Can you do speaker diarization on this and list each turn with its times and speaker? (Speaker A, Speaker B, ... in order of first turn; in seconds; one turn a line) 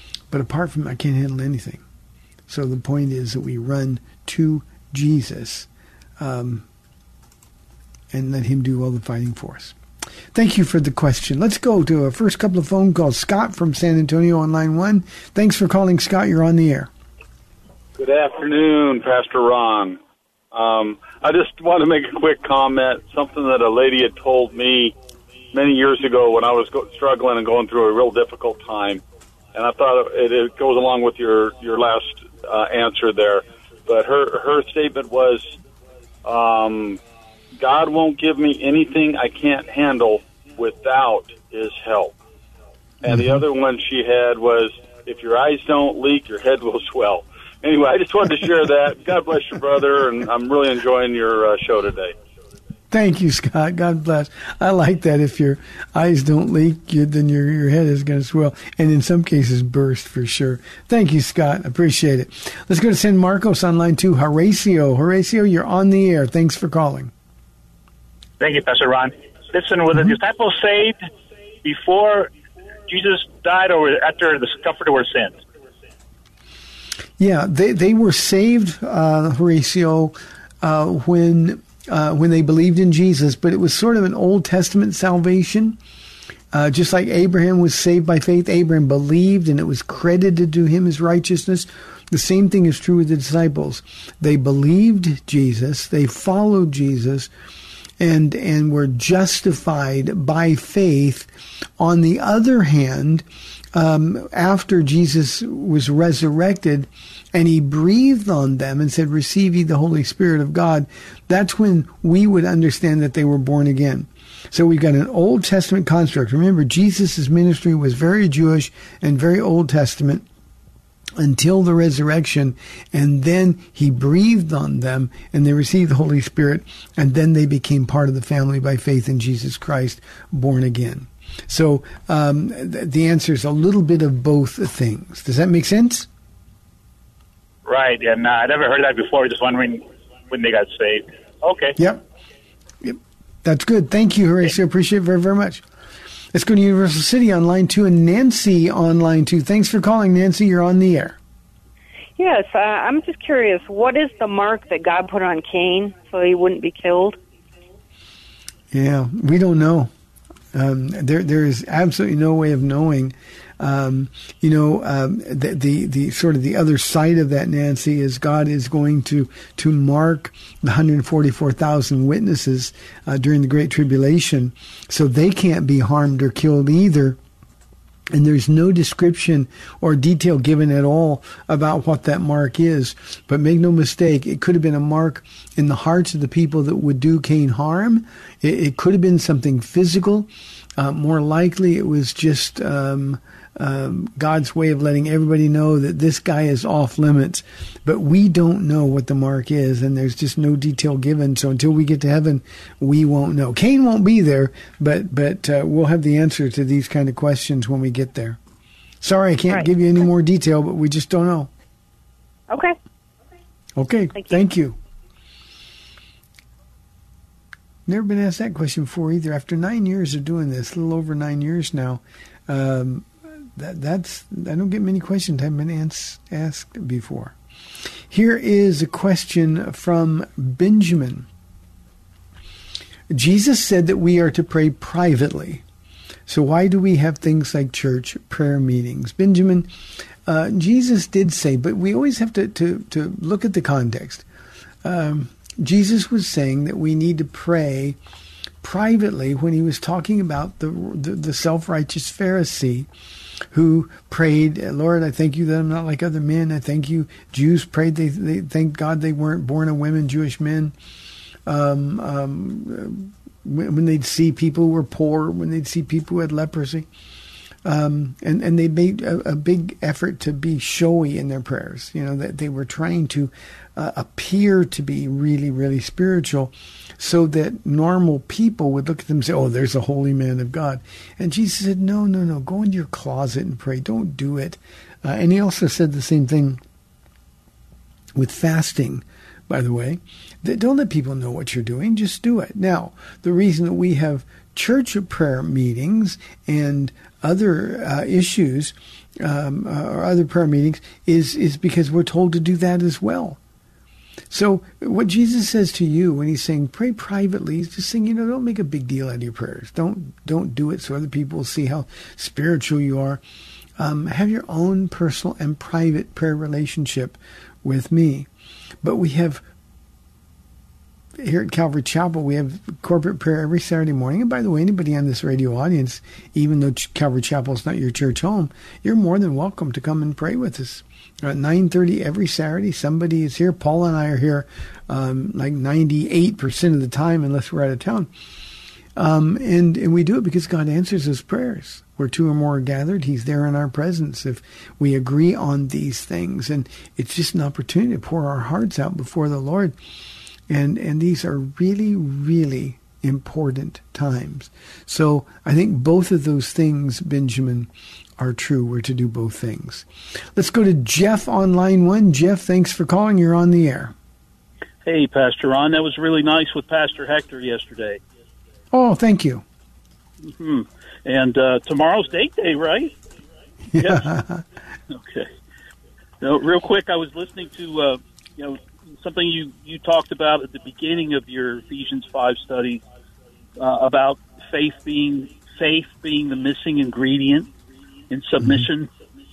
Speaker A: 0.3-1.8
Speaker A: 2.5-5.7
Speaker A: 6.2-6.7
Speaker A: 8.1-9.7
Speaker A: 10.3-16.9
Speaker B: 18.0-20.0
Speaker B: 20.5-24.9
Speaker B: 25.5-29.0
Speaker B: 29.5-35.5
Speaker B: 36.2-37.0
Speaker B: 37.6-42.2
Speaker B: 43.0-52.1
Speaker A: 43.1-43.4
Speaker A: 52.9-67.1
Speaker C: 68.4-71.1
Speaker C: 71.6-72.3
Speaker C: 72.9-75.4
Speaker A: 77.2-85.8
Speaker A: 86.5-97.3
Speaker A: 98.0-101.3
Speaker A: 101.8-120.2
Speaker A: 121.2-136.1
Speaker C: 137.6-141.8
Speaker A: 141.8-142.0
Speaker A: 142.8-145.6
Speaker A: 146.3-151.2
Speaker D: 152.2-157.2
Speaker A: 158.7-159.9
Speaker A: 160.5-177.2
Speaker A: 178.1-208.4
Speaker A: 209.0-211.5
Speaker D: 212.5-212.8
Speaker A: 213.8-214.8
Speaker A: 217.9-223.1
Speaker A: 223.6-227.3
Speaker A: 228.1-231.3
Speaker A: 233.1-235.6
Speaker A: 236.3-239.7
Speaker A: 240.2-244.2
Speaker A: 244.8-248.0
Speaker A: 248.6-252.9
Speaker A: 253.5-260.7
Speaker A: 261.4-266.9
Speaker A: 267.6-286.6
Speaker A: 288.1-303.4
Speaker A: 304.3-313.2
Speaker A: 313.8-318.3
Speaker A: 318.8-319.4
Speaker A: 321.2-338.1
Speaker A: 338.9-349.7
Speaker A: 350.5-363.9
Speaker E: 364.8-368.0
Speaker A: 368.7-369.4
Speaker E: 370.2-372.9
Speaker A: 373.7-374.4
Speaker E: 373.8-374.1
Speaker E: 374.9-375.3
Speaker E: 376.2-382.8
Speaker E: 383.6-387.5
Speaker E: 388.1-388.9
Speaker A: 388.4-388.6